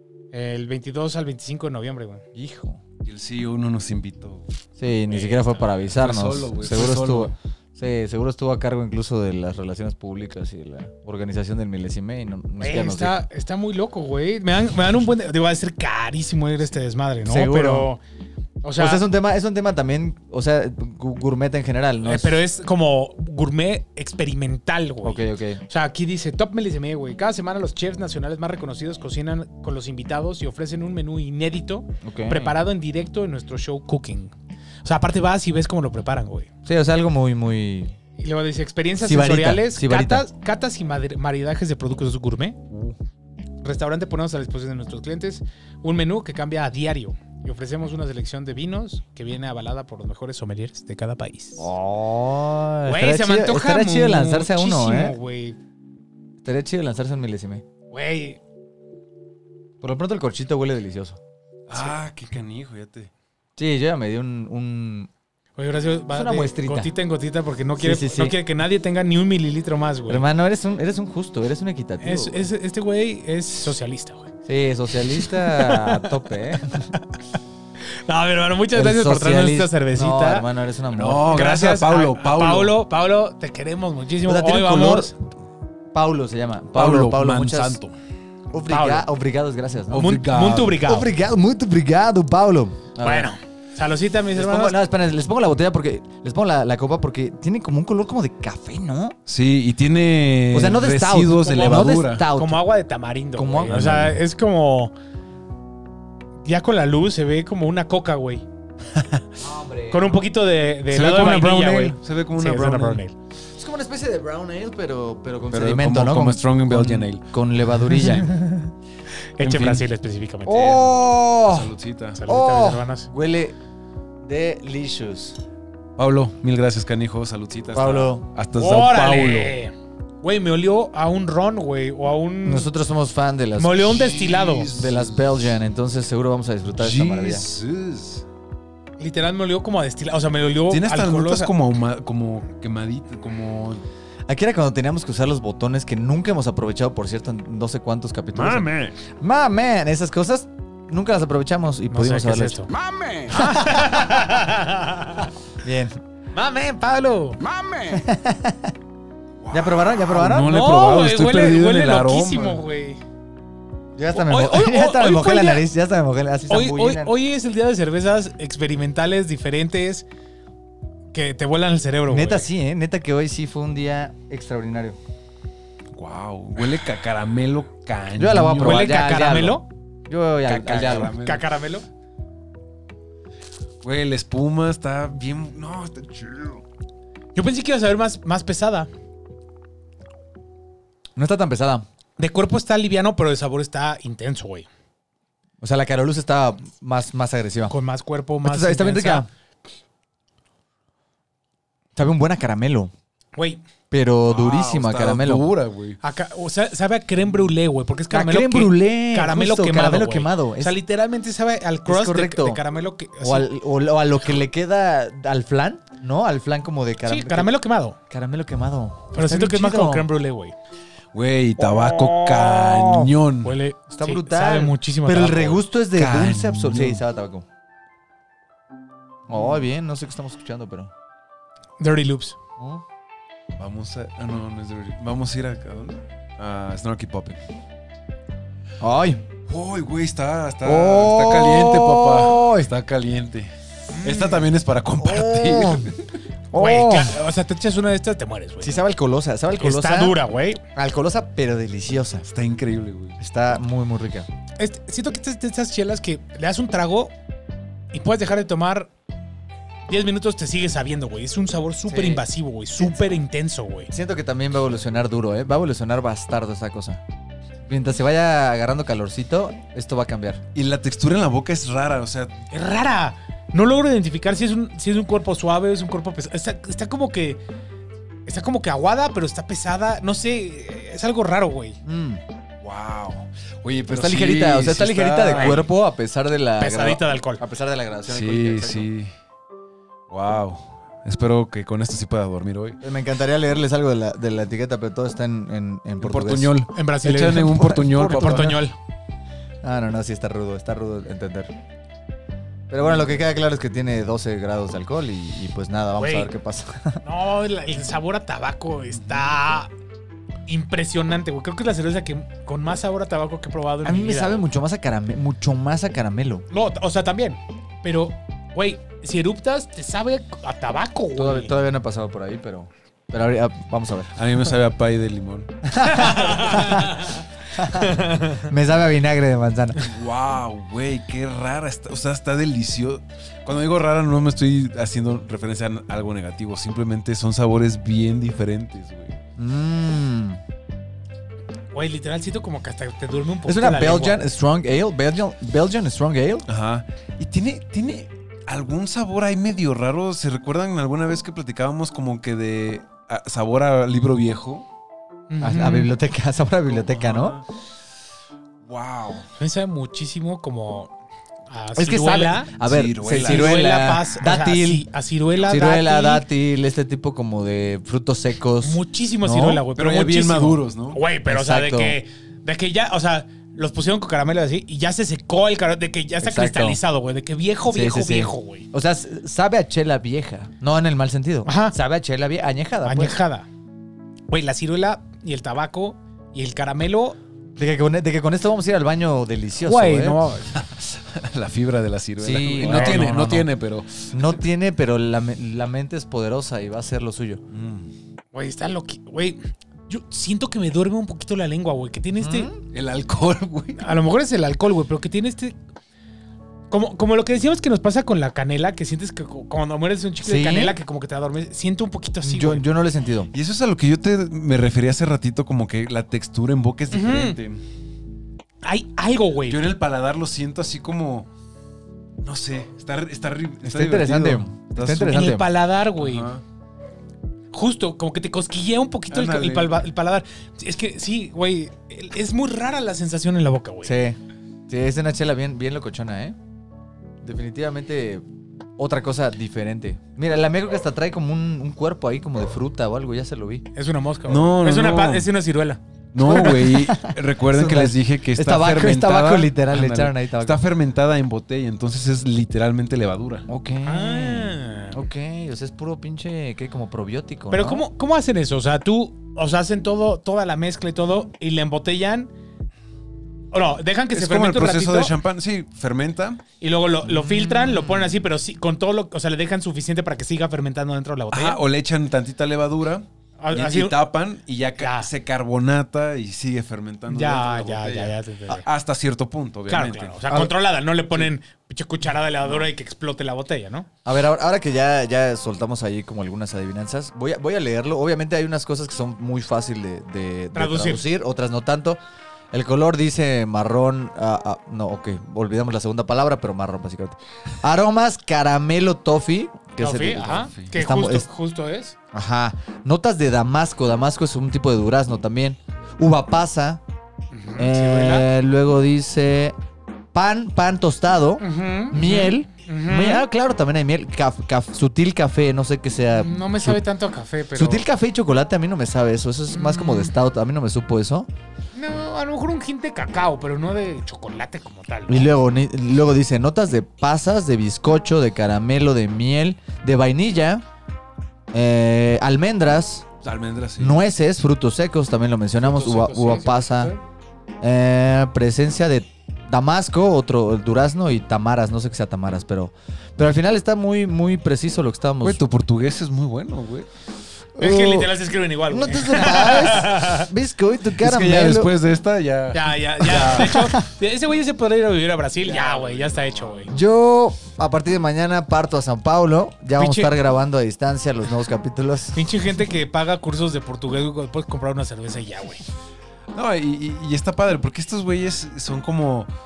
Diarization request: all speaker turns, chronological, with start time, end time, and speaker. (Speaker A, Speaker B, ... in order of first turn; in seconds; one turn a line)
Speaker A: 0.3-2.2
Speaker B: 2.3-2.8
Speaker C: 3.0-4.5
Speaker B: 4.8-13.2
Speaker C: 5.1-7.3
Speaker A: 12.6-18.0
Speaker B: 17.2-17.9
Speaker A: 18.6-19.0
Speaker B: 18.8-22.4
Speaker A: 22.0-34.3
Speaker B: 25.0-25.6
Speaker B: 32.0-32.6
Speaker A: 34.8-36.5
Speaker B: 36.6-38.0
Speaker A: 38.2-42.7
Speaker B: 39.0-40.3
Speaker A: 43.6-51.7
Speaker B: 51.6-55.2
Speaker A: 52.9-55.6
Speaker B: 56.4-57.6
Speaker A: 57.9-58.4
Speaker B: 59.8-61.2
Speaker C: 61.7-63.1
Speaker B: 63.6-65.1
Speaker A: 65.6-70.2
Speaker B: 66.1-66.9
Speaker B: 67.8-68.4
Speaker B: 70.1-72.5
Speaker A: 72.0-74.3
Speaker B: 74.5-76.9
Speaker A: 75.1-76.2
Speaker A: 78.0-80.5
Speaker B: 78.7-81.3
Speaker C: 80.9-82.8
Speaker A: 81.2-85.1
Speaker B: 84.3-85.1
Speaker B: 85.9-87.8
Speaker C: 86.7-87.9
Speaker B: 88.5-90.1
Speaker A: 88.6-89.1
Speaker C: 89.9-90.8
Speaker A: 89.9-91.1
Speaker B: 90.8-93.3
Speaker A: 93.0-94.8
Speaker B: 94.3-99.2
Speaker C: 99.3-102.3
Speaker B: 100.5-102.7
Speaker A: 102.3-104.9
Speaker B: 103.4-104.2
Speaker A: 106.4-108.5
Speaker B: 109.4-110.2
Speaker A: 109.9-113.1
Speaker C: 110.9-113.0
Speaker B: 113.5-118.4
Speaker C: 115.5-117.2
Speaker C: 117.9-118.3
Speaker A: 119.4-120.7
Speaker C: 119.4-119.9
Speaker B: 120.5-121.7
Speaker C: 120.5-122.2
Speaker A: 122.2-123.1
Speaker B: 122.3-123.5
Speaker B: 124.2-125.4
Speaker C: 126.0-129.6
Speaker B: 127.7-128.3
Speaker A: 128.6-132.7
Speaker B: 132.4-134.1
Speaker A: 133.6-134.7
Speaker C: 133.9-135.3
Speaker B: 134.7-137.4
Speaker C: 136.8-138.2
Speaker A: 139.0-141.5
Speaker C: 140.7-143.8
Speaker B: 144.3-152.6
Speaker C: 148.3-149.0
Speaker A: 151.9-152.7
Speaker A: 153.2-155.3
Speaker B: 153.4-153.9
Speaker B: 155.6-156.0
Speaker A: 156.3-157.4
Speaker B: 157.8-158.8
Speaker C: 159.4-162.6
Speaker B: 159.5-160.6
Speaker A: 160.4-163.0
Speaker B: 164.0-167.2
Speaker A: 164.1-165.7
Speaker A: 166.5-170.1
Speaker A: 171.1-172.5
Speaker B: 172.1-175.0
Speaker C: 175.9-179.0
Speaker B: 178.2-181.2
Speaker A: 178.6-179.7
Speaker C: 180.4-181.5
Speaker A: 181.2-181.9
Speaker C: 183.8-186.6
Speaker A: 187.3-188.9
Speaker B: 191.2-191.9
Speaker A: 192.2-194.7
Speaker B: 195.6-197.7
Speaker A: 197.7-199.3
Speaker B: 198.4-199.3
Speaker B: 201.9-202.9
Speaker A: 203.4-203.6
Speaker B: 203.9-205.5
Speaker C: 204.2-206.0
Speaker A: 206.0-213.5
Speaker B: 208.1-210.8
Speaker B: 211.9-212.6
Speaker B: 213.2-217.5
Speaker A: 217.0-218.0
Speaker B: 218.1-220.1
Speaker A: 219.1-220.6
Speaker C: 221.1-223.6
Speaker B: 221.8-223.1
Speaker A: 223.4-225.6
Speaker B: 223.9-227.5
Speaker C: 225.9-227.0
Speaker B: 229.3-230.9
Speaker A: 231.8-232.4
Speaker B: 232.6-232.8
Speaker C: 233.6-237.4
Speaker B: 238.8-239.2
Speaker C: 239.5-243.5
Speaker B: 240.6-242.7
Speaker A: 243.9-244.5
Speaker C: 244.0-246.1
Speaker B: 245.0-245.9
Speaker B: 246.5-247.2
Speaker A: 246.5-248.8
Speaker B: 248.6-250.2
Speaker A: 249.6-250.6
Speaker B: 250.7-252.3
Speaker C: 252.3-253.2
Speaker B: 253.2-254.3
Speaker A: 254.6-257.1
Speaker A: 257.9-258.9
Speaker A: 259.9-263.9
Speaker B: 261.9-262.2
Speaker B: 262.8-263.1
Speaker B: 263.9-267.0
Speaker B: 267.7-270.4
Speaker C: 270.6-272.4
Speaker A: 272.5-277.4
Speaker A: 278.3-281.8
Speaker B: 281.8-282.2
Speaker C: 282.6-285.7
Speaker B: 283.9-288.9
Speaker A: 285.3-285.6
Speaker A: 286.6-287.4
Speaker C: 288.1-289.1
Speaker C: 290.1-292.8
Speaker B: 292.8-296.6
Speaker C: 296.0-298.6
Speaker A: 296.7-298.8
Speaker B: 297.4-298.6
Speaker B: 299.6-301.5
Speaker B: 302.7-307.0
Speaker A: 306.0-306.3
Speaker A: 307.0-309.7
Speaker A: 310.5-314.5
Speaker B: 313.8-316.5
Speaker A: 316.5-321.6
Speaker B: 321.2-324.1
Speaker C: 324.2-325.5
Speaker B: 325.6-329.8
Speaker A: 325.8-328.5
Speaker C: 329.8-339.2
Speaker B: 339.4-340.4
Speaker A: 341.7-344.2
Speaker B: 343.5-346.5
Speaker C: 346.5-354.7
Speaker A: 355.3-355.9
Speaker B: 355.4-357.4
Speaker C: 356.7-357.4
Speaker C: 358.6-359.3
Speaker A: 359.4-360.9
Speaker A: 361.5-362.5
Speaker B: 361.8-364.9
Speaker C: 362.6-363.7
Speaker A: 363.1-366.2
Speaker B: 365.5-369.6
Speaker A: 368.6-378.7
Speaker C: 369.8-371.0
Speaker B: 371.3-372.0
Speaker B: 376.2-376.8
Speaker B: 377.7-383.2
Speaker A: 381.5-381.8
Speaker A: 382.9-383.5
Speaker A: 384.3-387.2
Speaker B: 387.6-390.2
Speaker A: 389.6-390.5
Speaker C: 390.5-394.2
Speaker B: 392.2-393.5
Speaker A: 392.6-393.2
Speaker B: 394.1-397.4
Speaker C: 397.5-397.9
Speaker A: 398.3-402.5
Speaker B: 402.2-402.6
Speaker C: 402.7-403.9
Speaker A: 403.8-405.6
Speaker A: 406.7-412.7
Speaker B: 410.2-410.8
Speaker B: 412.2-413.3
Speaker C: 413.3-417.6
Speaker A: 416.9-417.4
Speaker A: 418.6-419.6
Speaker C: 419.5-421.3
Speaker C: 422.2-425.4
Speaker B: 423.6-425.5
Speaker A: 425.0-426.3
Speaker C: 426.0-426.4
Speaker A: 427.5-434.0
Speaker C: 429.1-429.8
Speaker B: 433.8-436.4
Speaker B: 437.2-438.2
Speaker B: 438.8-443.7
Speaker A: 443.8-446.5
Speaker C: 444.3-445.3
Speaker C: 446.1-453.5
Speaker B: 446.2-450.6
Speaker B: 453.5-457.9
Speaker A: 453.8-455.0
Speaker A: 457.5-462.3
Speaker A: 463.5-465.1
Speaker C: 464.1-466.4
Speaker A: 466.6-471.6
Speaker B: 467.1-468.1
Speaker C: 471.3-480.5
Speaker A: 473.4-474.0
Speaker A: 474.8-475.1
Speaker A: 477.1-478.6
Speaker A: 479.7-483.9
Speaker B: 484.1-492.0
Speaker A: 490.5-491.1
Speaker B: 492.5-501.3
Speaker A: 499.8-502.0
Speaker B: 502.1-506.8
Speaker A: 507.3-508.3
Speaker B: 507.6-509.6
Speaker B: 510.1-516.8
Speaker A: 511.4-513.3
Speaker A: 516.1-517.9
Speaker B: 517.5-521.3
Speaker A: 519.5-520.1
Speaker A: 521.8-525.3
Speaker B: 525.1-530.6
Speaker B: 531.5-533.1
Speaker C: 533.2-534.0
Speaker B: 533.8-536.9
Speaker A: 535.6-537.0
Speaker B: 537.6-545.4
Speaker C: 545.2-546.9
Speaker B: 547.6-548.2
Speaker A: 547.6-550.3
Speaker B: 548.7-551.7
Speaker C: 551.0-553.7
Speaker A: 552.5-556.7
Speaker B: 553.3-553.8
Speaker C: 555.5-556.7
Speaker B: 556.7-562.2
Speaker A: 559.8-560.1
Speaker A: 562.1-565.6
Speaker C: 566.3-569.3